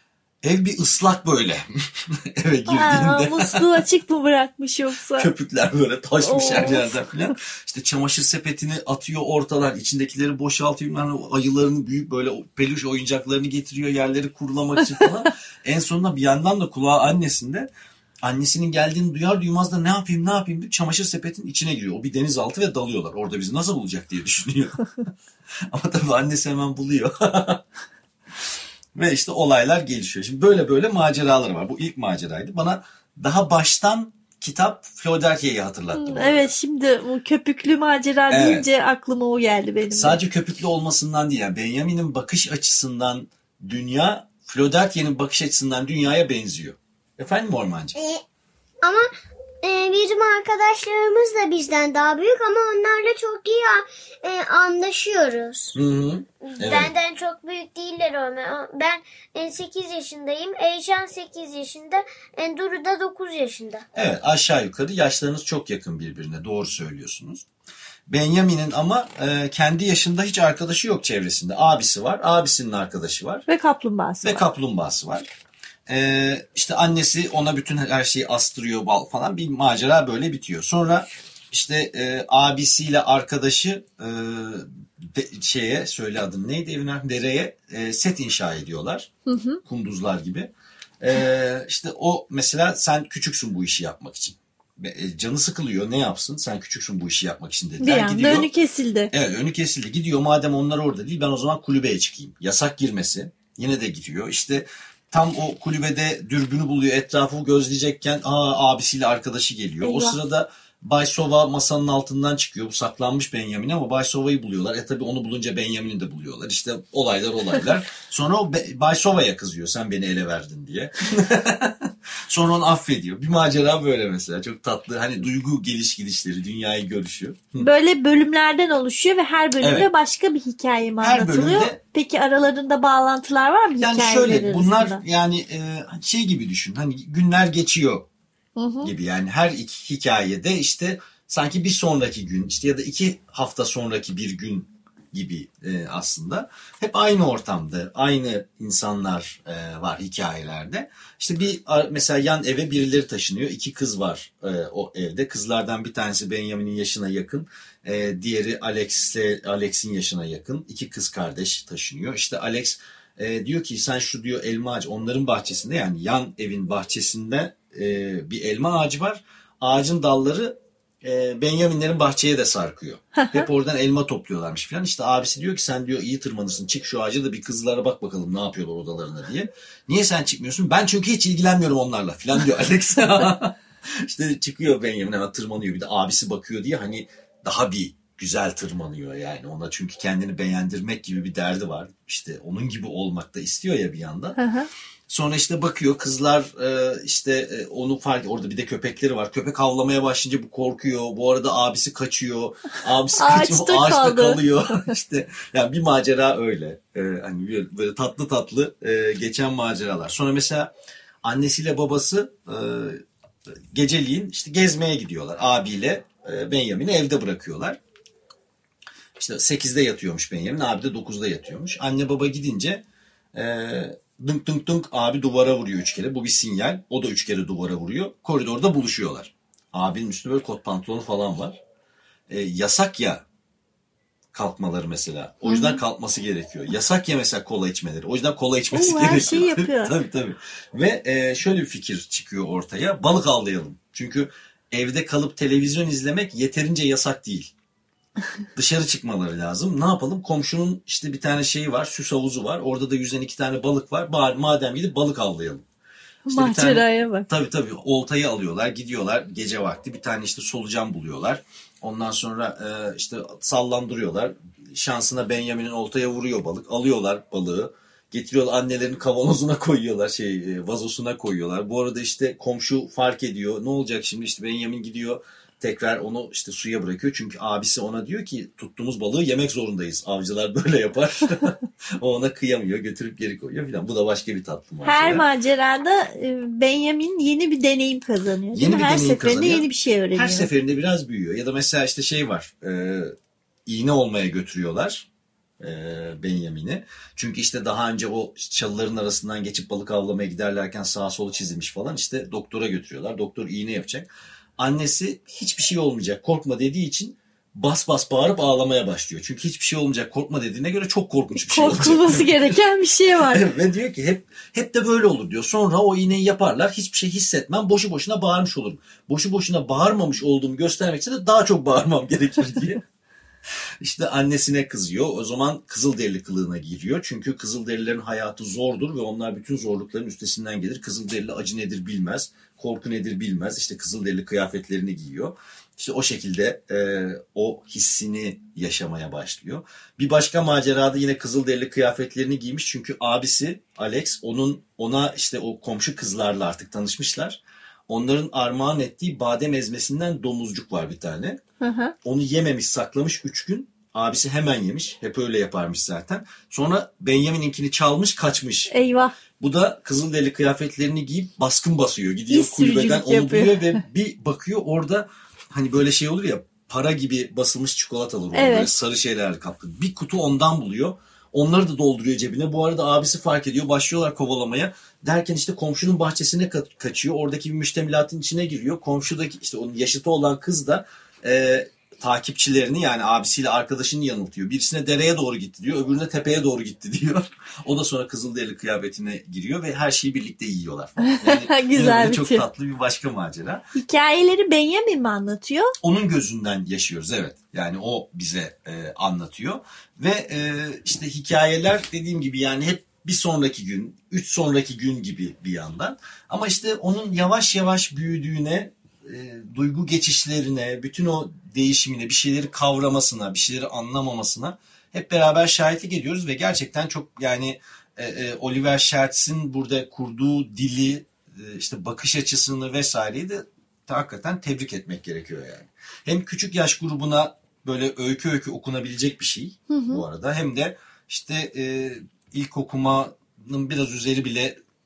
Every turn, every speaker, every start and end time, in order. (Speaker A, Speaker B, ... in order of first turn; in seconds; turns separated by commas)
Speaker A: 0.4-3.8, Speaker B: 2.7-5.3, Speaker A: 5.2-17.7, Speaker B: 6.2-7.0, Speaker A: 18.2-24.9, Speaker A: 25.7-27.6, Speaker A: 28.9-36.5, Speaker B: 35.9-40.2, Speaker A: 38.3-38.6, Speaker A: 39.9-47.9, Speaker C: 47.9-48.2, Speaker C: 48.8-49.1, Speaker C: 49.6-55.8, Speaker A: 55.7-56.9, Speaker C: 56.4-63.8, Speaker A: 63.9-67.5, Speaker A: 68.1-73.4, Speaker B: 73.5-74.4, Speaker A: 74.2-75.3, Speaker A: 75.9-89.1, Speaker B: 89.3-89.6, Speaker A: 89.6-98.5, Speaker B: 97.8-99.1, Speaker A: 99.1-127.7, Speaker B: 109.8-110.2, Speaker B: 127.6-135.0, Speaker A: 129.6-129.9, Speaker A: 131.0-131.8, Speaker A: 133.8-138.1, Speaker B: 138.6-138.9, Speaker A: 138.8-194.4, Speaker B: 194.3-194.7, Speaker A: 195.1-210.7, Speaker B: 203.1-204.4, Speaker A: 211.2-213.0, Speaker A: 213.7-217.8, Speaker A: 219.2-231.6, Speaker A: 232.3-233.2, Speaker A: 234.3-247.5, Speaker B: 235.4-235.8, Speaker B: 238.7-239.9, Speaker A: 248.5-255.6, Speaker B: 256.2-257.3, Speaker A: 256.3-285.2, Speaker B: 284.8-290.5, Speaker A: 288.5-293.1, Speaker A: 293.6-295.1, Speaker A: 295.6-312.5, Speaker B: 311.4-313.5, Speaker A: 313.3-322.8, Speaker A: 323.8-351.4, Speaker B: 351.6-351.9, Speaker A: 352.0-358.7, Speaker B: 358.7-359.1, Speaker A: 359.4-393.6, Speaker B: 362.3-363.8, Speaker B: 368.3-368.7, Speaker B: 391.0-392.4, Speaker B: 393.7-395.7, Speaker A: 395.8-434.6, Speaker B: 429.7-430.0